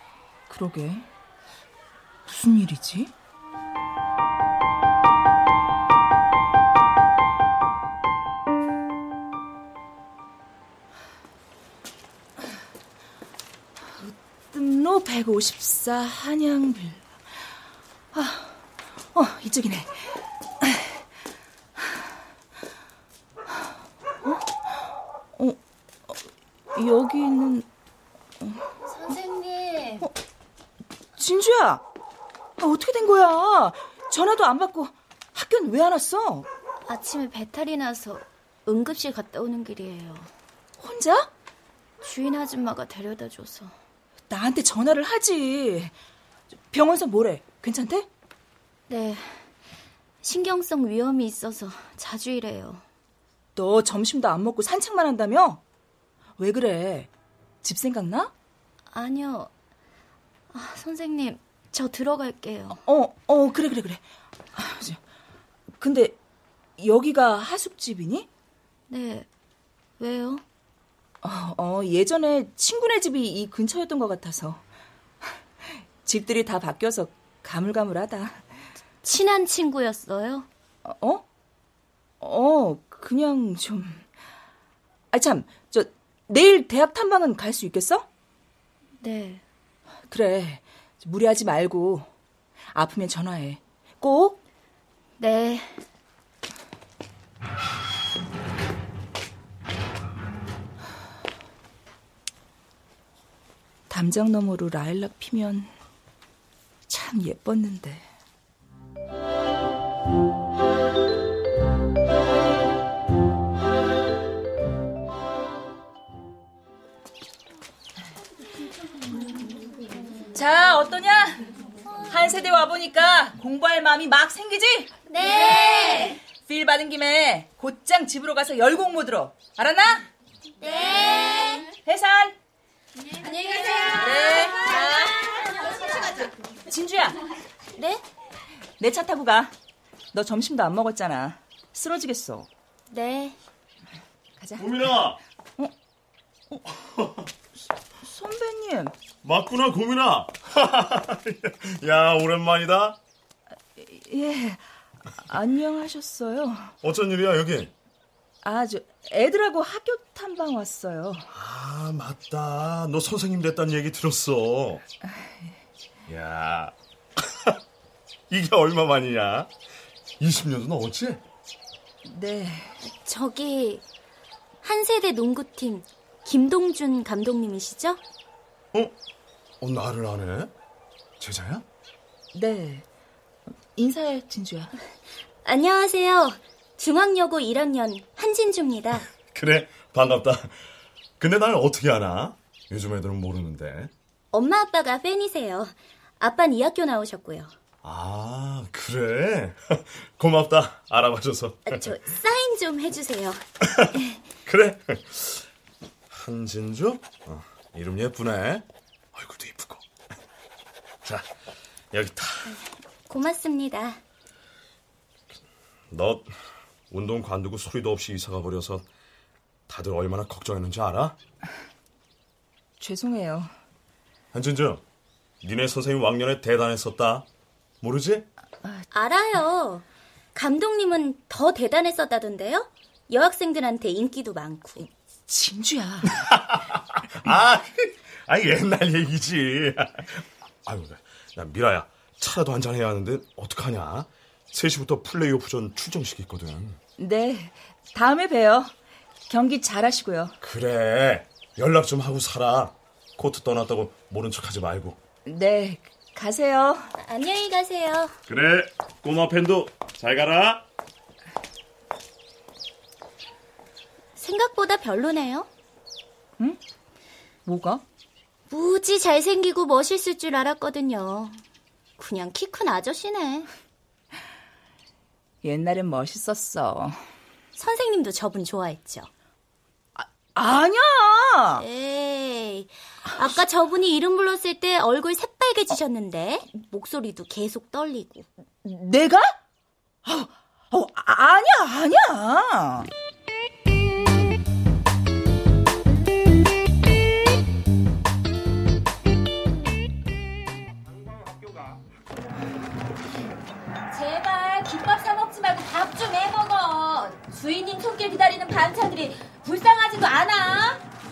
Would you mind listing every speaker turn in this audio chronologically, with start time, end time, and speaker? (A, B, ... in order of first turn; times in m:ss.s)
0:00.5-0:01.1 A
0:02.3-0:03.1 A
0:14.0-0:17.0 A
0:18.1-0:19.9 A
0:20.6-0:20.9 A
0:24.2-0:24.8 A
0:25.4-0:26.2 A
0:26.8-0:27.7 A
0:29.0-0:30.0 B
0:31.2-0:31.8 A
0:32.6-0:36.5 A
0:36.9-0:40.3 B
0:40.8-0:41.3 A
0:42.0-0:43.8 B
0:44.3-0:45.9 A
0:46.7-0:48.1 A
0:48.9-0:49.4 B
0:50.2-0:52.8 B
0:53.6-0:55.6 A
0:56.4-0:57.1 A
0:57.6-0:58.3 A
0:58.9-0:59.5 B
1:00.5-1:02.8 B
1:02.9-1:04.0 A
1:04.6-1:05.0 A
1:05.8-1:06.2 A
1:06.8-1:08.3 A
1:08.9-1:09.3 B
1:10.0-1:10.4 B
1:11.2-1:14.6 A
1:16.0-1:18.4 A
1:19.0-1:20.5 B
1:20.8-1:21.2 A
1:22.2-1:24.0 A
1:25.1-1:28.1 A
1:29.0-1:29.4 B
1:30.1-1:32.1 A
1:32.7-1:34.4 A
1:35.2-1:35.8 B
1:43.9-1:45.7 A
1:46.9-1:48.0 A
2:00.3-2:01.4 A
2:02.1-2:04.9 A
2:05.1-2:06.2 B
2:06.3-2:10.1 A
2:10.6-2:11.7 B
2:11.7-2:12.4 A
2:13.2-2:16.0 B
2:14.0-2:15.2 A
2:16.7-2:17.2 A
2:17.8-2:18.0 B
2:18.8-2:19.5 A
2:20.1-2:22.5 A
2:22.9-2:23.4 B
2:24.4-2:24.7 A
2:24.6-2:25.2 C
2:26.9-2:27.2 C
2:28.0-2:28.9 A
2:29.2-2:33.0 C
2:33.8-2:34.6 A
2:35.3-2:36.7 A
2:36.8-2:37.7 C
2:38.4-2:41.3 A
2:41.3-2:44.8 C
2:46.1-2:47.6 C
2:48.3-2:49.5 C
2:50.2-2:51.2 C
2:52.0-2:52.8 A
2:52.8-2:53.8 B
2:54.6-2:58.0 B
2:59.6-3:00.5 C
3:01.2-3:01.6 C
3:02.3-3:02.8 A
3:03.8-3:04.7 A
3:05.4-3:09.1 B
3:09.3-3:10.5 C
3:11.2-3:13.9 C
3:14.3-3:17.5 B
3:17.8-3:21.8 C
3:21.7-3:23.4 B
3:24.5-3:25.4 C
3:26.1-3:29.8 C
3:31.9-3:32.6 C
3:33.1-3:34.0 B
3:35.9-3:36.3 C
3:36.9-3:38.8 C
3:39.7-3:41.2 C
3:42.8-3:43.5 A
3:44.3-3:44.8 C
3:45.4-3:47.3 C
3:47.8-3:48.3 C
3:48.9-3:54.9 B
3:55.3-3:56.2 A
3:56.2-4:06.8 C
4:07.0-4:08.7 A
4:09.3-4:10.4 A
4:10.4-4:15.0 C
4:15.2-4:16.9 A
4:17.0-4:18.1 B
4:18.3-4:20.6 C
4:24.2-4:25.5 B
4:27.5-4:27.8 A
4:28.5-4:31.4 B
4:32.0-4:33.5 B
4:35.4-4:37.0 A
4:37.6-4:39.1 B
4:40.0-4:41.6 A
4:41.6-4:48.3 B
4:48.6-4:49.4 A
4:50.0-4:52.9 A
5:03.9-5:10.8 D